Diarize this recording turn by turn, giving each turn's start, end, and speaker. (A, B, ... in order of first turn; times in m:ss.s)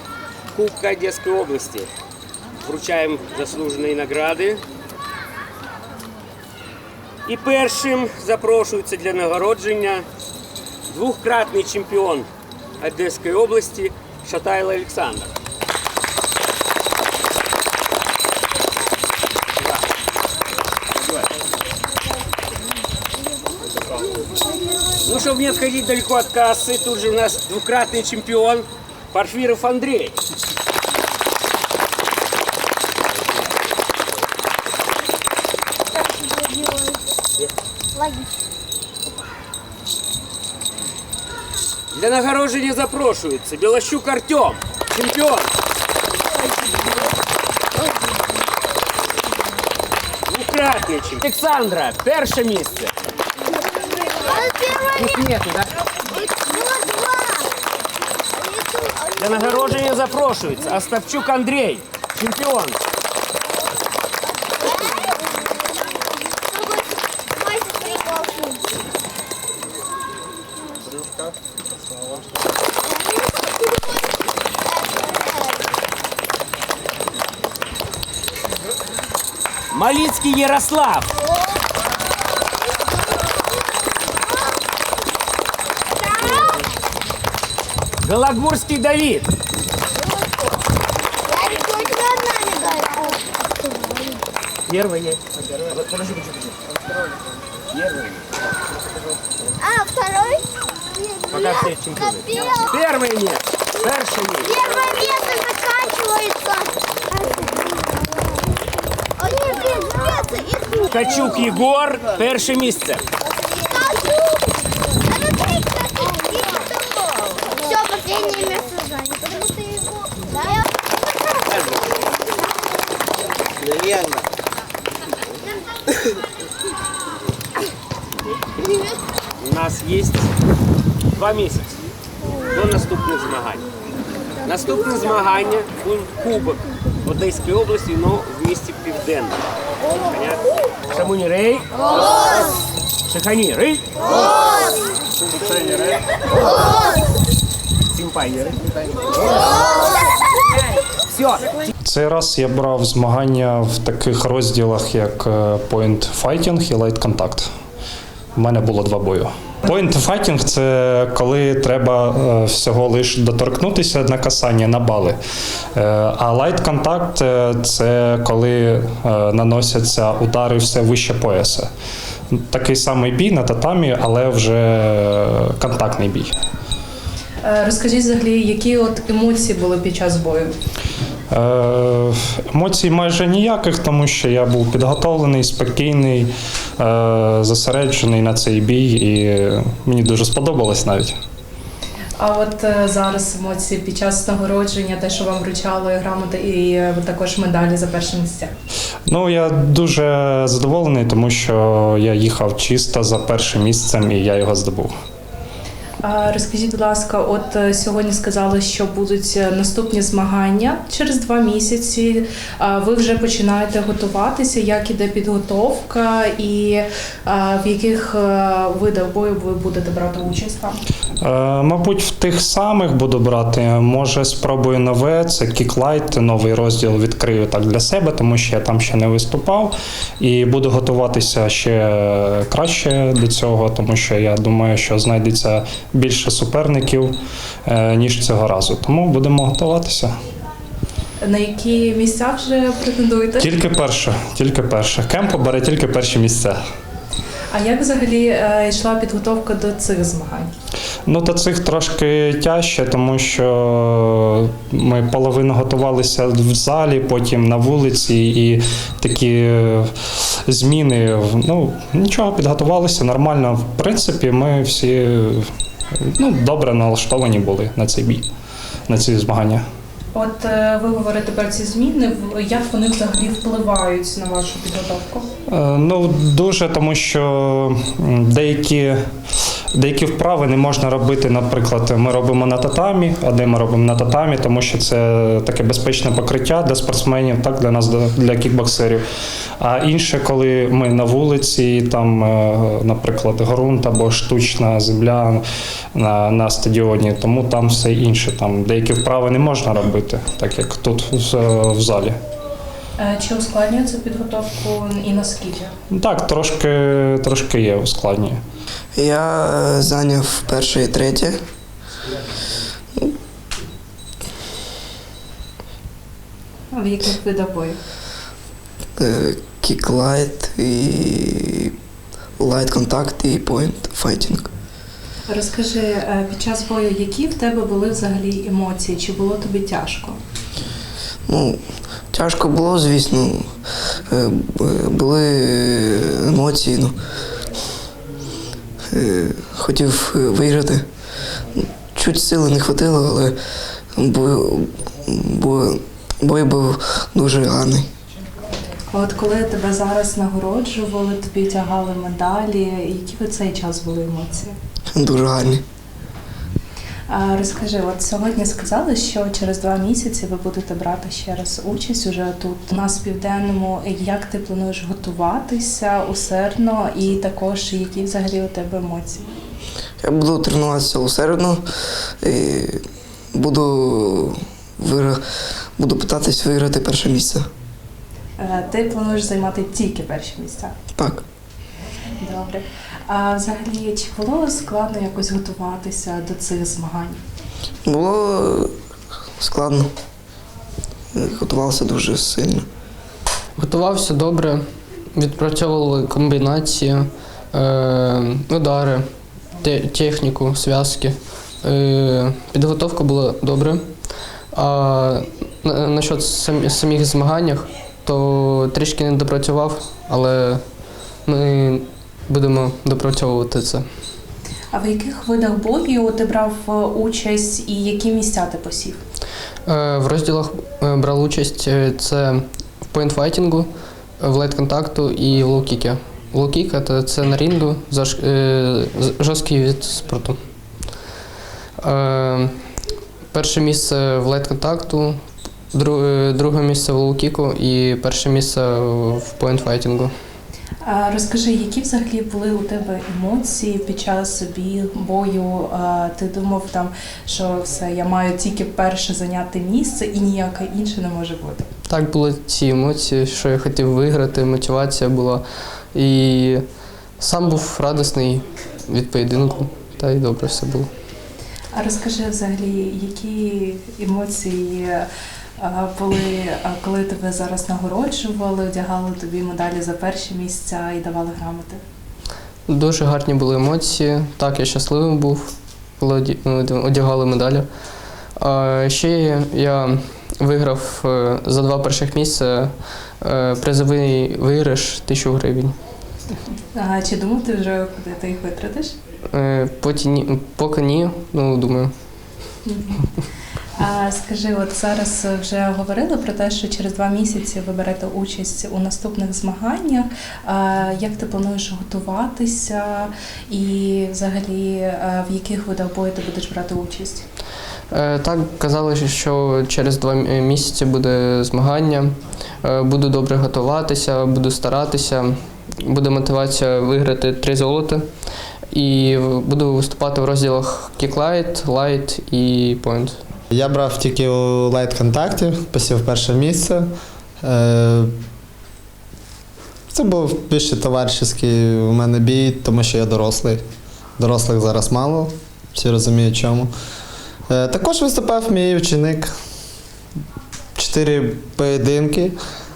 0:00.5-0:01.9 A
0:02.6-0:04.6 A
0:07.2-0:10.0 A
0:10.9-0:12.3 A
0:12.8-0:15.3 A
0:25.0-0:30.1 A
0:36.0-0:37.0 B
0:38.0-0:38.2 B
0:41.9-0:45.5 A
0:50.3-0:52.9 A
0:54.2-0:55.2 B
0:55.0-0:55.7 A
0:56.2-0:57.5 B
0:58.4-0:59.8 B
0:59.2-1:02.8 A
1:04.6-1:05.5 B
1:06.4-1:08.6 B
1:12.8-1:13.8 B
1:14.7-1:15.6 B
1:19.7-1:21.1 A
1:21.2-1:21.5 B
1:26.0-1:26.7 B
1:28.0-1:29.3 A
1:30.0-1:30.5 B
1:31.3-1:34.2 B
1:34.7-1:35.2 A
1:35.8-1:36.3 A
1:37.7-1:38.2 A
1:39.6-1:42.7 B
1:41.3-1:44.5 A
1:44.4-1:48.4 B
1:49.2-1:51.6 B
1:50.9-1:53.0 A
1:53.2-2:01.6 B
2:09.4-2:10.3 A
2:11.1-2:11.7 A
2:12.6-2:13.6 A
2:14.5-2:19.4 A
2:20.0-2:22.1 A
2:23.1-2:24.1 A
2:25.2-2:26.0 A
2:27.9-2:28.6 A
2:31.2-2:31.5 A
2:31.8-2:37.5 C
2:38.4-2:45.2 C
2:45.7-2:51.7 C
2:52.3-2:56.3 C
2:57.4-3:00.5 D
3:01.3-3:11.1 C
3:12.2-3:18.5 D
3:19.1-3:24.9 C
3:26.0-3:40.8 D
3:41.2-3:57.1 C
3:57.6-4:00.1 C
4:01.2-4:03.5 D
4:03.4-4:06.6 C
4:07.5-4:10.5 D
4:11.1-4:19.9 C
4:20.5-4:25.5 C
4:26.2-4:28.3 C
4:28.9-4:29.6 C
4:30.1-4:35.3 D
4:35.5-4:39.0 C
4:39.7-4:49.0 C
4:49.6-4:55.4 C
4:55.9-5:02.2 C
5:03.0-5:05.7 D
5:05.9-5:08.4 C
5:09.0-5:11.4 E
5:16.7-5:17.8 D
5:19.0-5:21.7 E
5:22.4-5:24.5 E
5:25.3-5:30.2 D
5:31.3-5:31.6 E
5:32.1-5:33.5 E
5:34.1-5:36.9 E
5:38.9-5:40.8 E
5:41.6-5:43.4 E
5:44.0-5:47.9 E
5:48.9-5:54.5 D
5:54.9-5:55.6 E
5:57.1-6:09.3 D
6:10.0-6:11.6 E
6:12.2-6:12.8 E
6:13.3-6:15.2 E
6:15.8-6:17.5 E
6:18.4-6:20.7 D
6:21.0-6:21.2 E
6:22.2-6:27.2 D
6:27.8-6:28.7 E
6:29.4-6:29.9 E
6:31.1-6:32.6 E
6:33.6-6:34.6 F
6:35.1-6:39.0 F
6:39.6-6:43.9 F
6:44.5-6:50.6 F
6:51.2-6:53.8 F
6:54.7-6:59.0 D
6:59.7-7:03.7 F
7:04.2-7:10.4 F
7:11.8-7:12.5 F
7:13.3-7:15.1 F
7:15.7-7:20.1 F
7:20.8-7:31.7 D
7:31.9-7:35.4 F
7:35.9-7:36.6 F
7:37.2-7:40.9 F
7:41.7-7:45.1 D
7:45.6-7:51.8 D
7:52.7-7:57.7 F
7:58.4-8:05.7 F
8:06.7-8:08.9 D
8:09.3-8:11.9 F
8:12.6-8:13.1 D
8:13.8-8:27.2 D
8:27.9-8:38.0 F
8:38.7-8:43.2 F
8:43.5-8:46.9 G
8:47.4-8:48.1 G
8:49.9-8:53.6 G
8:54.2-8:56.7 G
8:57.5-8:59.3 G
9:00.8-9:02.3 G